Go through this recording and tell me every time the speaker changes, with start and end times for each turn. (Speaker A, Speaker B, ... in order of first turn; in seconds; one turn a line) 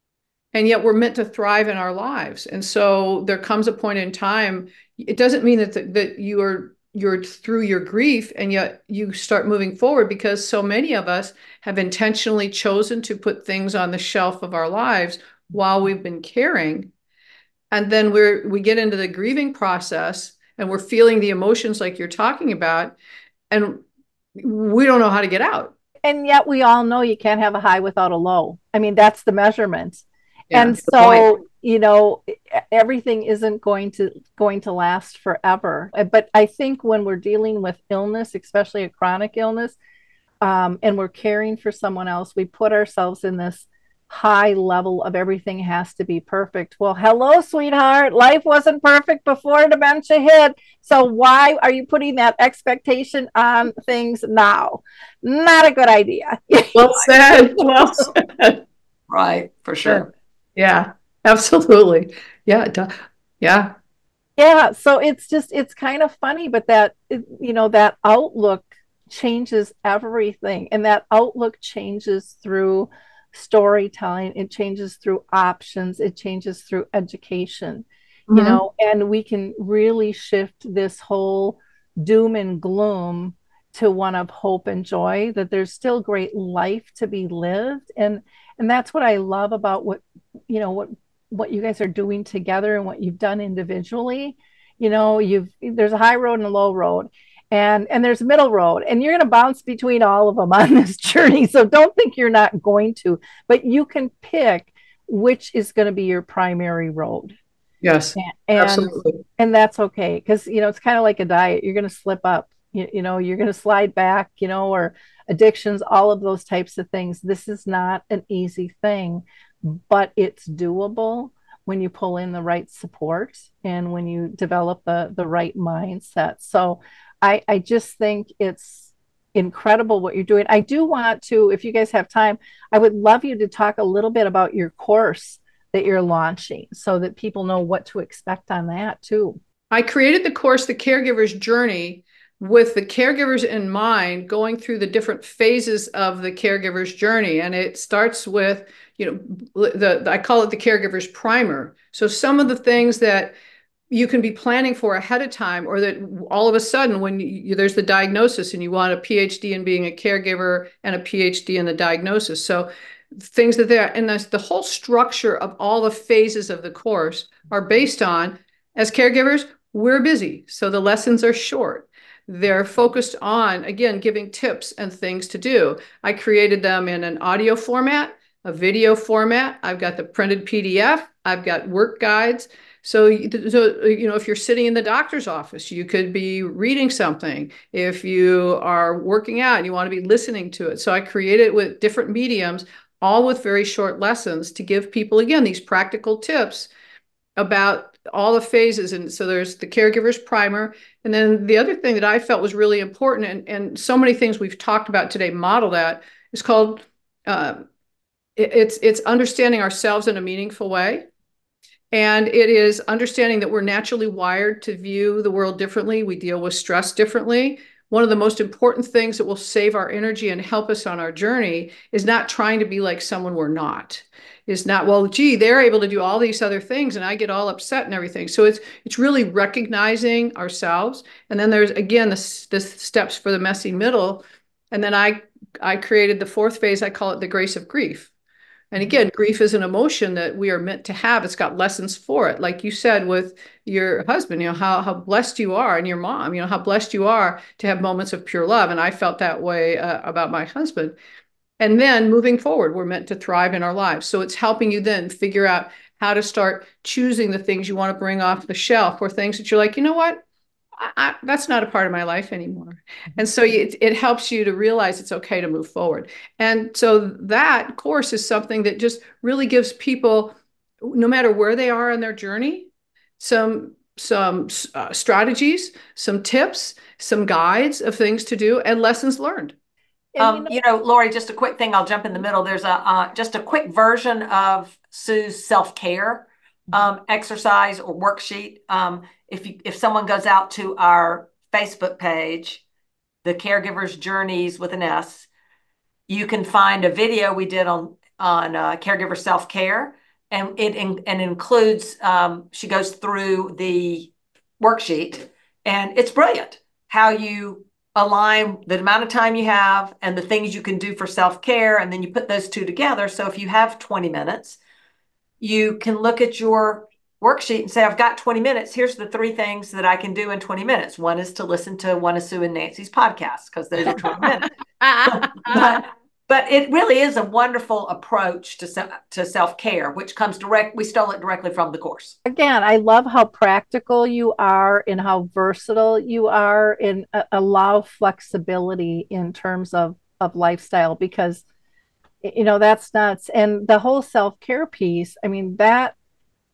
Speaker A: 0.5-16.9
Speaker A: 17.7-22.9
Speaker A: 23.5-23.8
Speaker A: 24.4-25.7
Speaker B: 26.0-39.8
Speaker A: 30.5-30.9
Speaker C: 31.0-31.2
Speaker B: 40.4-57.1
Speaker A: 56.7-58.6
Speaker C: 59.1-60.1
Speaker A: 60.5-63.7
Speaker B: 64.4-107.3
Speaker A: 78.3-78.6
Speaker A: 107.8-109.2
Speaker B: 108.2-139.4
Speaker A: 139.7-153.3
Speaker A: 153.9-196.7
Speaker A: 197.4-207.7
Speaker A: 208.4-211.0
Speaker A: 211.9-238.1
Speaker A: 238.7-250.9
Speaker A: 251.6-260.2
Speaker A: 260.8-272.7
Speaker A: 273.2-279.5
Speaker B: 280.1-280.5
Speaker C: 280.2-292.6
Speaker C: 293.2-295.3
Speaker C: 296.1-314.6
Speaker C: 315.4-324.5
Speaker A: 324.8-325.8
Speaker C: 325.0-332.1
Speaker B: 332.2-341.4
Speaker B: 342.2-345.9